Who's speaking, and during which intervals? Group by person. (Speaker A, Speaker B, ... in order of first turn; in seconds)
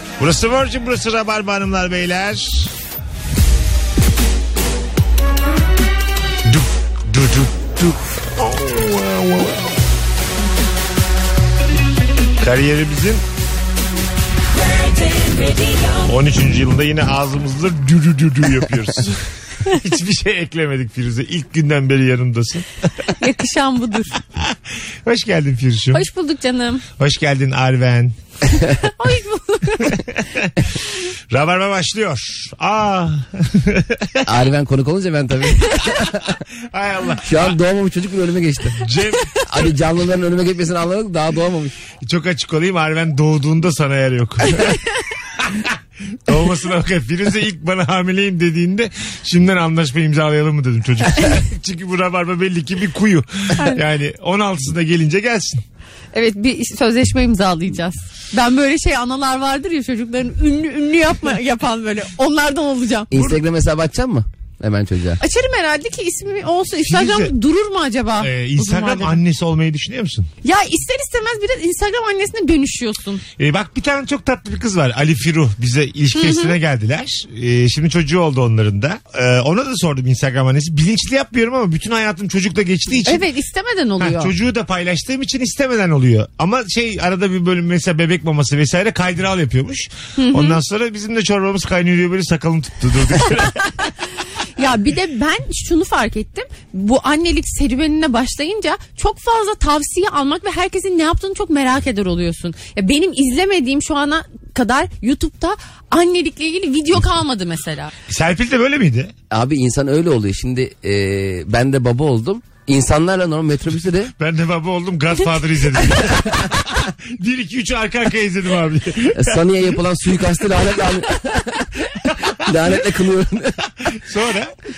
Speaker A: 0.2-2.7, 6.5-9.7, 12.4-13.2, 16.0-22.6, 24.4-26.0, 27.0-28.1, 29.9-30.6, 31.3-34.2, 36.7-37.6, 38.8-39.3, 42.0-55.6, 63.1-63.4, 66.8-67.3, 68.2-70.3, 73.4-83.2, 84.0-93.7, 108.1-109.1, 114.2-119.4, 123.8-124.5
Speaker B: 23.1-24.1, 25.9-26.8, 28.8-30.0, 53.5-53.8, 56.1-63.1, 65.2-69.2, 70.4-73.2, 76.1-76.5, 83.0-84.3, 90.2-90.6, 94.6-107.9
Speaker C: 34.2-36.4, 37.2-38.9, 39.5-41.8, 63.1-65.2, 109.3-114.1, 119.1-121.7, 122.4-123.6